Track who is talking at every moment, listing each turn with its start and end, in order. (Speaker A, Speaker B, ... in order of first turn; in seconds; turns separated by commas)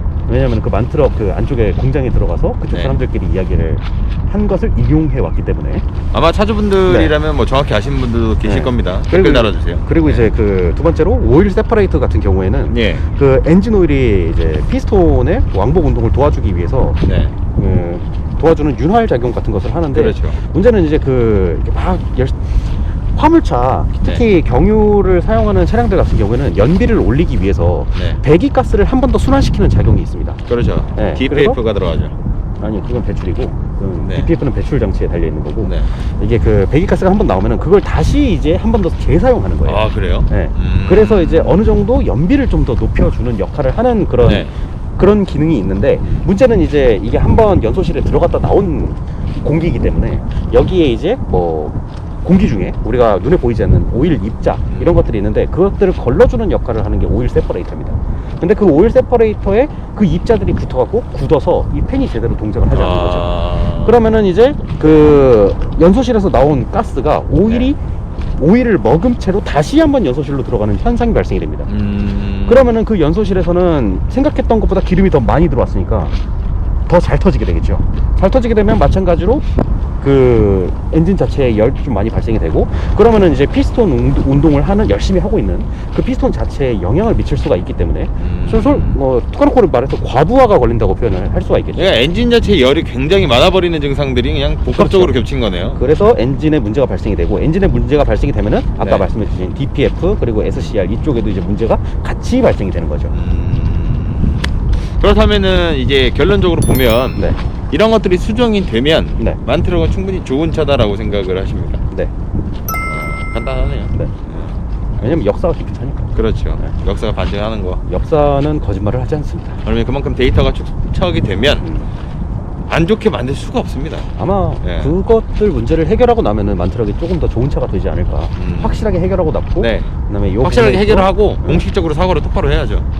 Speaker A: 0.3-5.8, Speaker B: 6.1-10.3, Speaker A: 6.9-7.1, Speaker A: 8.4-17.0, Speaker B: 12.7-13.0, Speaker B: 17.0-17.3, Speaker A: 17.5-30.4, Speaker B: 19.9-20.4, Speaker B: 27.9-28.2, Speaker B: 30.4-32.1, Speaker A: 30.9-31.6, Speaker A: 32.6-67.8, Speaker B: 34.0-34.3, Speaker B: 35.6-35.9, Speaker B: 39.6-41.7, Speaker B: 44.2-44.5, Speaker B: 62.7-64.0, Speaker B: 67.4-67.7, Speaker A: 68.3-71.7, Speaker B: 71.7-72.7, Speaker A: 72.4-76.1, Speaker A: 76.9-79.5, Speaker A: 80.0-91.9, Speaker B: 88.2-89.0, Speaker B: 91.7-95.8, Speaker A: 94.7-103.1, Speaker B: 98.8-99.1, Speaker B: 103.1-111.8, Speaker B: 112.8-114.6, Speaker A: 115.0-116.7, Speaker B: 116.1-117.8, Speaker A: 117.8-119.6, Speaker B: 119.6-121.7, Speaker A: 121.6-121.9, Speaker B: 122.7-124.1, Speaker A: 124.2-131.7, Speaker B: 124.6-124.9, Speaker B: 128.3-128.8, Speaker B: 129.6-132.8